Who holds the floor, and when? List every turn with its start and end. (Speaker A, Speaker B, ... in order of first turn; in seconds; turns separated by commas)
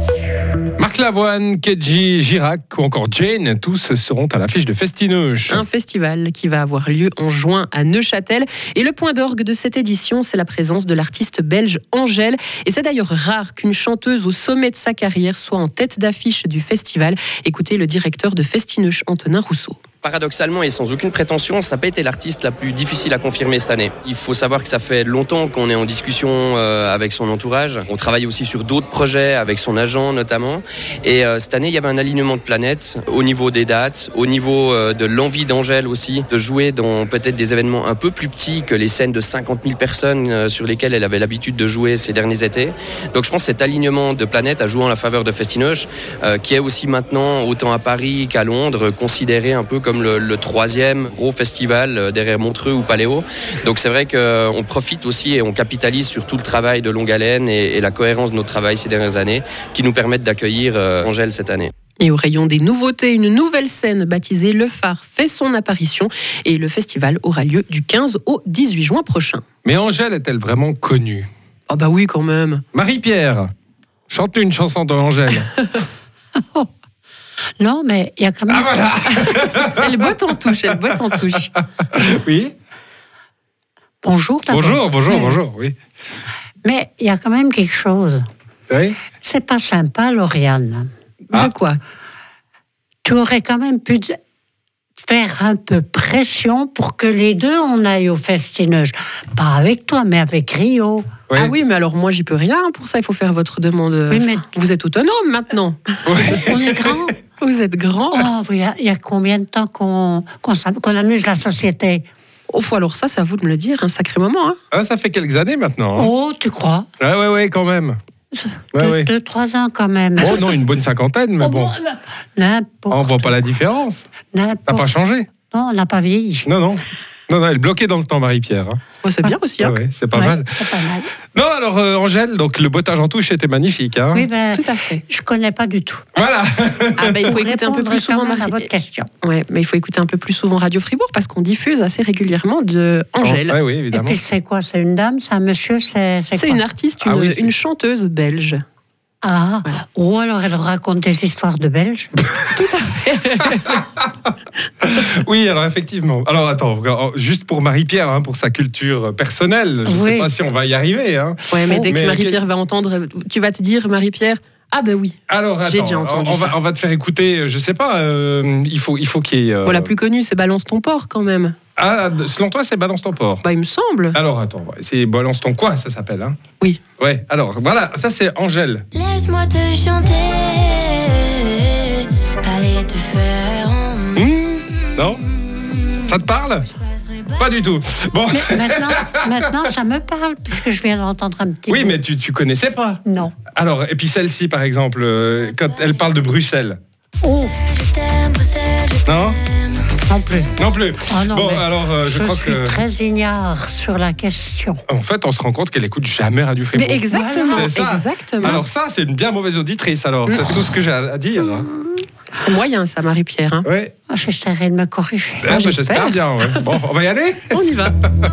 Speaker A: 0.8-5.6, Speaker B: 5.5-19.8, Speaker C: 20.0-61.7, Speaker B: 62.0-69.4, Speaker A: 69.7-71.3, Speaker B: 71.7-72.6, Speaker A: 72.7-73.5, Speaker A: 74.1-75.6, Speaker D: 77.6-79.3, Speaker A: 78.5-79.9, Speaker B: 79.8-81.5, Speaker A: 82.0-82.5, Speaker D: 84.0-85.4, Speaker A: 84.5-85.8, Speaker D: 86.6-88.2, Speaker A: 88.7-89.0, Speaker D: 89.1-90.9, Speaker B: 91.3-91.8, Speaker D: 93.0-94.2, Speaker D: 95.0-101.1, Speaker B: 101.3-105.8, Speaker D: 104.1-104.5, Speaker A: 106.1-106.6, Speaker D: 106.3-107.2, Speaker B: 107.4-108.3, Speaker D: 108.1-112.0, Speaker B: 112.5-114.6, Speaker A: 114.7-116.1, Speaker D: 116.0-116.9, Speaker A: 117.0-118.0, Speaker D: 118.3-120.6, Speaker A: 118.8-119.1, Speaker A: 120.2-121.7, Speaker D: 121.4-123.5, Speaker A: 122.9-124.0, Speaker D: 124.3-124.9, Speaker A: 124.7-125.3, Speaker D: 125.4-126.5, Speaker A: 126.5-128.8, Speaker B: 129.0-130.3, Speaker A: 129.6-130.5, Speaker D: 130.4-131.1, Speaker A: 131.3-134.2, Speaker D: 134.1-136.0, Speaker B: 134.5-135.0, Speaker A: 136.2-137.2, Speaker B: 137.0-138.7, Speaker D: 137.3-139.1, Speaker B: 139.2-143.6, Speaker A: 143.2-144.2, Speaker D: 143.9-146.6, Speaker B: 146.3-148.6, Speaker A: 147.1-147.5, Speaker D: 149.2-152.2, Speaker B: 152.5-153.8, Speaker A: 154.8-162.4, Speaker D: 159.9-160.3, Speaker B: 161.5-166.6, Speaker A: 165.3-169.9, Speaker B: 169.7-171.6, Speaker A: 171.8-173.4, Speaker B: 173.4-174.2, Speaker A: 174.2-176.4, Speaker A: 177.0-178.9, Speaker E: 178.9-184.3, Speaker A: 184.2-185.2, Speaker A: 186.1-186.7, Speaker A: 187.4-189.2, Speaker D: 188.3-192.0, Speaker A: 191.7-193.0, Speaker D: 193.1-193.4, Speaker A: 193.5-196.8, Speaker D: 197.2-197.6, Speaker E: 197.4-199.3, Speaker A: 199.1-199.4, Speaker D: 200.1-200.6, Speaker A: 200.6-202.8, Speaker D: 201.1-204.8, Speaker A: 204.9-211.7, Speaker B: 206.7-208.6, Speaker D: 207.1-207.7, Speaker B: 210.3-210.5, Speaker B: 212.3-213.7, Speaker A: 213.7-213.9, Speaker D: 214.1-215.7, Speaker A: 215.4-217.5, Speaker B: 215.5-216.6, Speaker B: 217.5-217.9